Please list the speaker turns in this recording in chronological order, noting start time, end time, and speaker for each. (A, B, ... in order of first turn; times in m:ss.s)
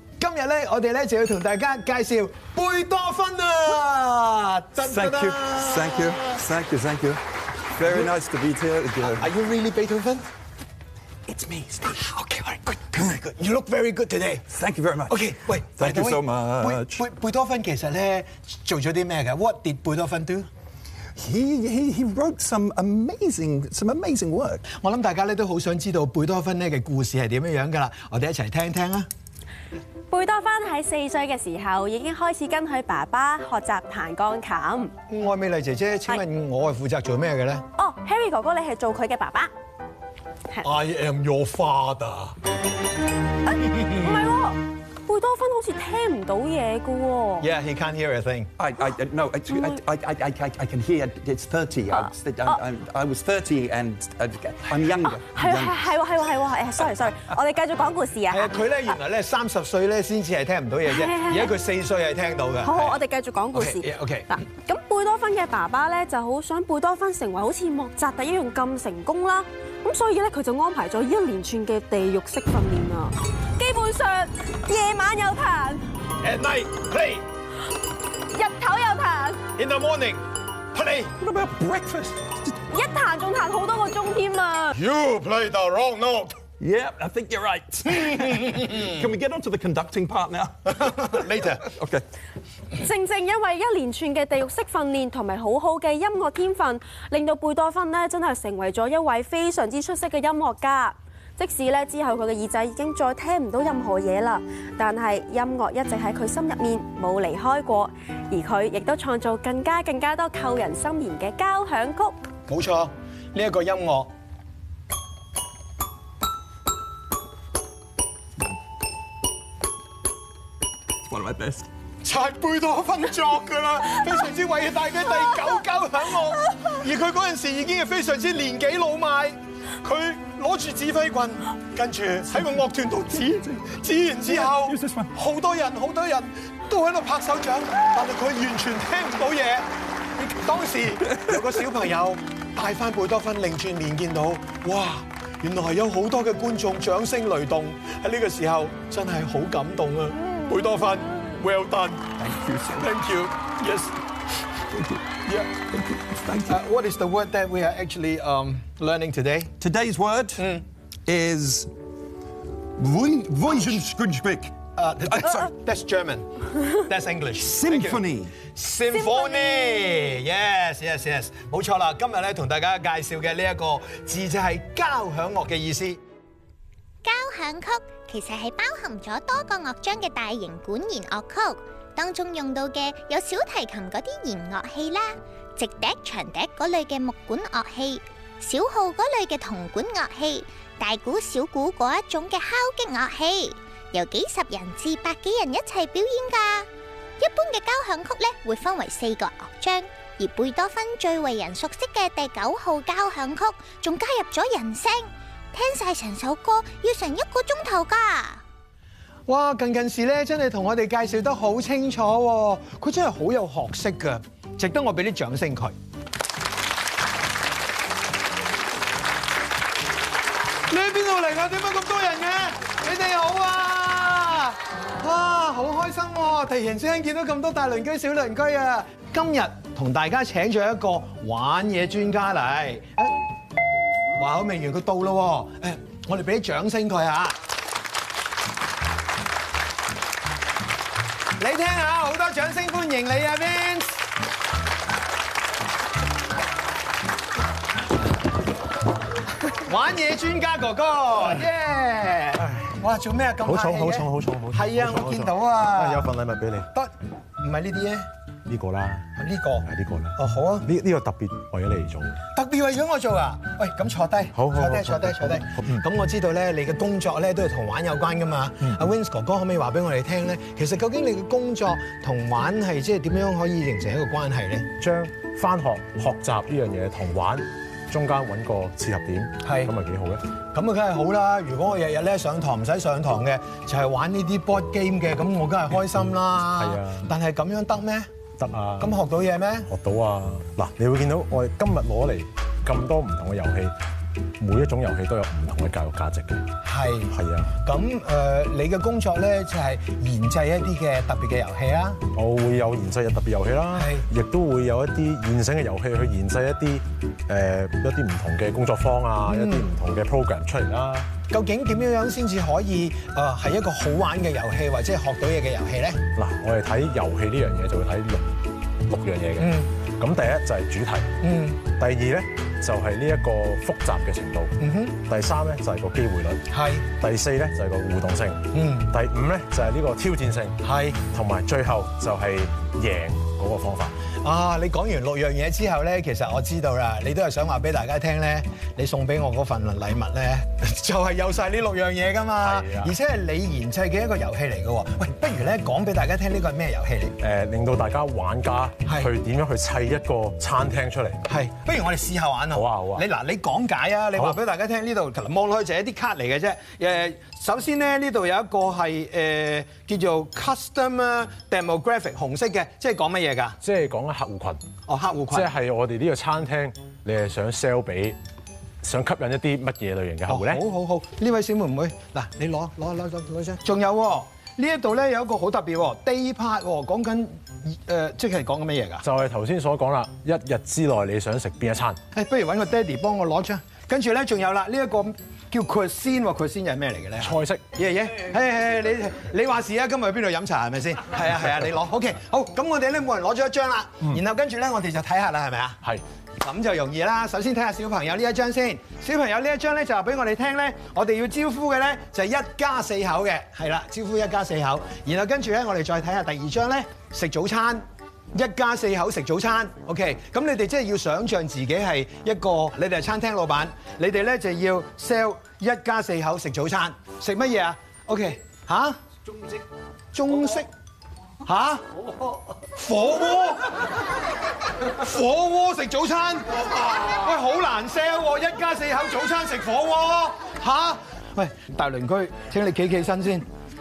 0:00.2-0:06.2 A
0:04.8-0:07.2 B
0:07.8-0:09.3 B
0:09.1-0:10.2 A
0:11.3-0:14.5 A
0:14.5-0:17.0 B
0:15.1-0:20.5 A
0:21.2-0:24.6 B
0:24.7-0:29.1 A
0:30.1-0:34.9 C
0:35.1-0:37.6 A
0:37.8-0:39.5 C
0:40.6-0:42.4 A
0:43.5-0:47.5 C
0:47.4-0:48.5 A
0:48.6-0:55.8 B
0:49.5-0:49.8 C
0:51.9-0:52.6 C
0:55.1-0:58.5 C
0:58.3-1:03.0 A
1:00.8-1:01.5 C
1:02.6-1:15.8 C
1:03.5-1:04.3 A
1:16.2-1:17.2 A
1:18.3-1:19.4 C
1:19.6-1:21.1 A
1:21.2-1:22.5 B
1:22.7-1:24.8 C
1:24.9-1:26.4 A
1:26.6-1:32.0 B
1:30.7-1:31.6 A
1:32.8-1:52.2 C
1:52.5-1:54.1 A
2:01.0-2:01.7 B
2:02.0-2:19.7 A
2:13.6-2:15.1 B
2:20.2-2:32.1 A
2:32.2-2:33.0 B
2:32.7-2:33.9 A
2:34.7-2:36.6 B
2:36.5-2:39.5 A
2:39.6-2:40.5 B
2:40.4-2:40.6 A
2:41.0-2:41.7 B
2:42.8-2:45.5 B
2:44.8-2:56.0 A
2:47.4-2:48.4 B
2:57.0-3:16.7 D
3:17.2-3:28.4 D
3:29.3-3:35.7 A
3:40.7-3:53.2 A
3:54.1-3:57.4 A
4:01.4-4:04.0 A
4:09.6-4:16.1 A
4:13.4-4:16.7 E
4:16.7-4:18.1 A
4:18.5-4:19.1 E
4:19.1-4:20.7 A
4:19.6-4:22.2 E
4:22.3-4:34.7 A
4:24.3-4:25.8 E
4:34.8-4:40.2 E
4:39.4-4:39.7 A
4:40.5-4:48.1 A
4:46.6-4:47.0 E
4:48.4-4:48.9 E
4:48.8-4:49.7 A
4:49.7-4:53.7 E
4:54.4-4:56.4 E
4:56.6-5:02.0 A
4:57.1-4:57.5 E
5:02.1-5:11.1 E
5:03.7-5:04.1 A
5:09.2-5:09.7 A
5:11.3-5:16.0 A
5:16.2-5:18.3 E
5:18.9-5:21.1 E
5:19.4-5:19.7 A
5:21.2-5:21.6 A
5:21.8-5:26.4 E
5:24.6-5:25.0 A
5:26.5-5:26.9 A
5:27.0-5:34.0 E
5:28.5-5:28.9 A
5:30.6-5:31.0 A
5:34.2-5:47.2 A
5:42.4-5:42.9 E
5:47.2-5:51.2 E
5:48.8-5:49.1 A
5:51.2-6:03.6 A
5:52.5-5:53.0 E
6:03.6-6:04.6 E
6:04.9-6:05.5 A
6:05.3-6:08.2 E
6:08.8-6:10.6 E
6:10.3-6:19.0 A
6:19.0-6:22.0 E
6:22.1-6:35.8 A
6:27.2-6:27.6 E
6:36.4-6:59.0 A
7:00.1-7:00.7 A
7:01.4-7:01.8 A
7:02.7-7:03.7 A
7:04.8-7:13.5 A